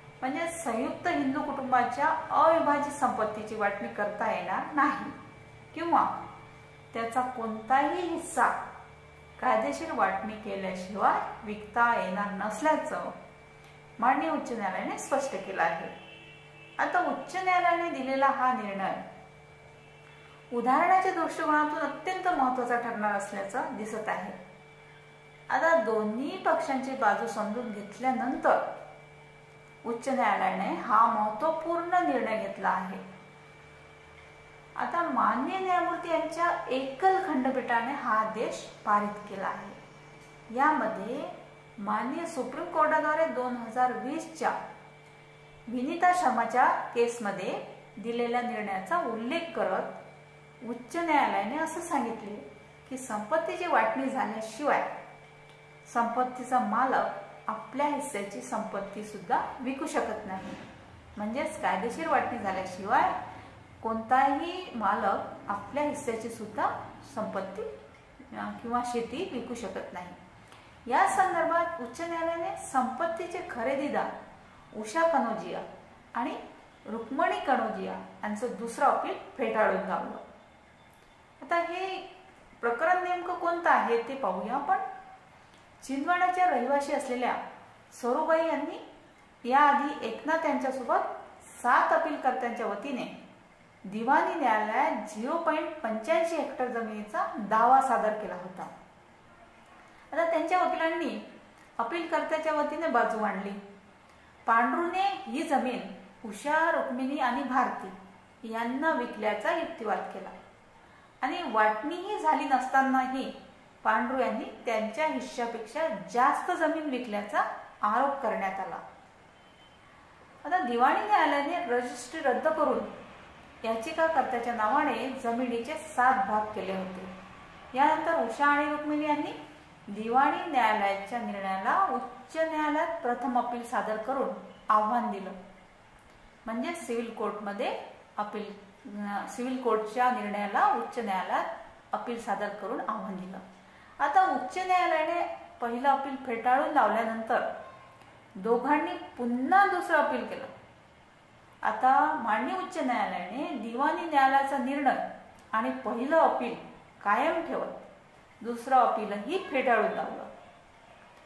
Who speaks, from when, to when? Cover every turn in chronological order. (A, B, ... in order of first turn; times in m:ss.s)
0:00.2-0:05.2 A
0:05.7-0:06.2 A
0:06.9-0:08.6 A
0:09.4-0:13.2 A
0:14.0-0:15.9 A
0:16.8-0:19.0 A
0:20.5-0:24.4 A
0:25.5-0:28.6 A
0:29.8-0:33.0 A
0:34.8-0:39.8 A
0:40.5-0:44.6 A
0:45.7-0:50.0 A
0:50.6-0:54.9 A
0:55.9-1:00.6 A
1:01.2-1:03.2 A
1:03.8-1:07.7 A
1:08.3-1:10.2 A
1:10.9-1:14.1 A
1:14.7-1:20.2 A
1:21.4-1:24.8 A
1:25.8-1:27.4 A
1:27.9-1:28.8 A
1:29.4-1:33.2 A
1:33.8-1:38.7 A
1:40.1-1:41.2 A
1:41.8-1:43.6 A
1:44.4-1:50.3 A
1:51.2-1:58.8 A
2:00.4-2:02.9 A
2:03.6-2:07.1 A
2:07.7-2:09.4 A
2:09.9-2:15.4 A
2:16.4-2:23.4 A
2:24.0-2:27.5 A
2:28.4-2:30.5 A
2:31.6-2:37.9 A
2:38.4-2:40.3 A